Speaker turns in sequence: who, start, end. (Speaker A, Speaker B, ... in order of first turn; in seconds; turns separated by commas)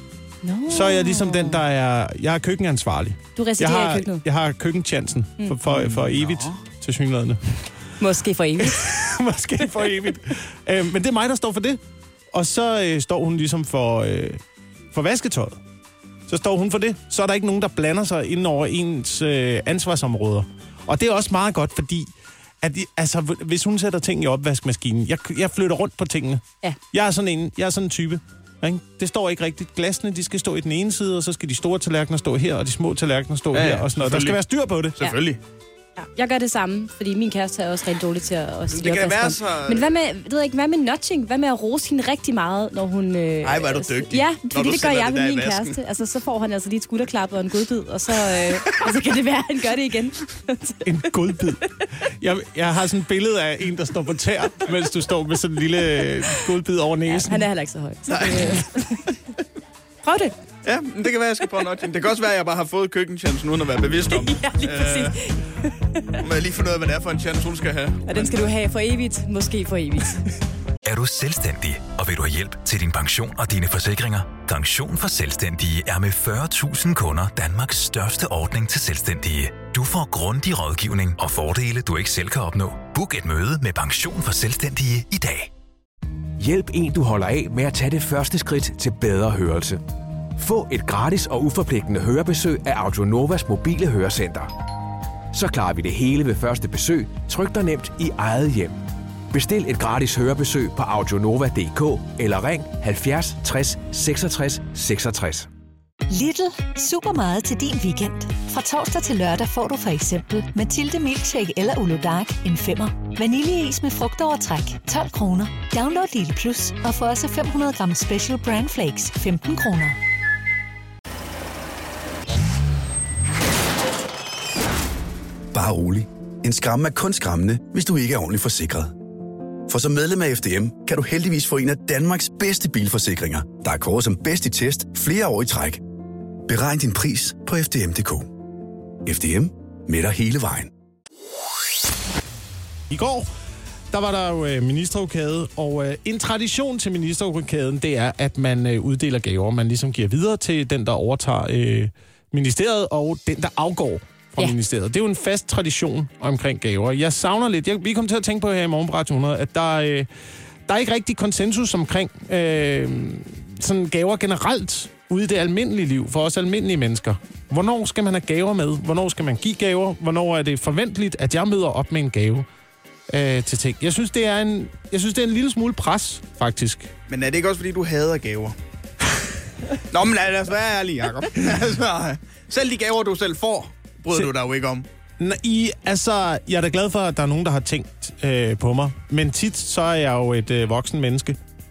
Speaker A: 0.4-1.6, Speaker B: 0.7-7.4, Speaker A: 3.4-4.2, Speaker C: 5.7-6.6, Speaker A: 8.0-8.8, Speaker B: 8.6-11.8, Speaker B: 12.3-14.4, Speaker B: 14.9-15.6, Speaker B: 16.3-35.0, Speaker C: 33.5-34.4, Speaker C: 35.0-35.4, Speaker A: 36.0-50.9, Speaker C: 38.7-39.9, Speaker C: 43.4-45.8, Speaker B: 50.8-51.6, Speaker B: 52.2-57.5, Speaker A: 57.1-59.2, Speaker C: 58.1-58.6, Speaker A: 60.0-60.3, Speaker C: 60.6-65.2, Speaker A: 64.1-66.1, Speaker C: 66.2-68.4, Speaker A: 68.1-70.3, Speaker D: 70.8-85.5, Speaker E: 86.4-89.8, Speaker E: 90.3-94.5, Speaker E: 95.3-98.7, Speaker E: 99.3-105.5, Speaker F: 106.1-120.0, Speaker G: 125.5-128.9, Speaker G: 129.7-135.8, Speaker G: 136.4-138.3, Speaker G: 139.0-140.7, Speaker B: 142.9-143.3, Speaker B: 143.9-160.1, Speaker B: 160.7-172.4, Speaker B: 173.1-176.9, Speaker C: 177.1-178.6, Speaker C: 179.9-184.9, Speaker B: 185.2-191.4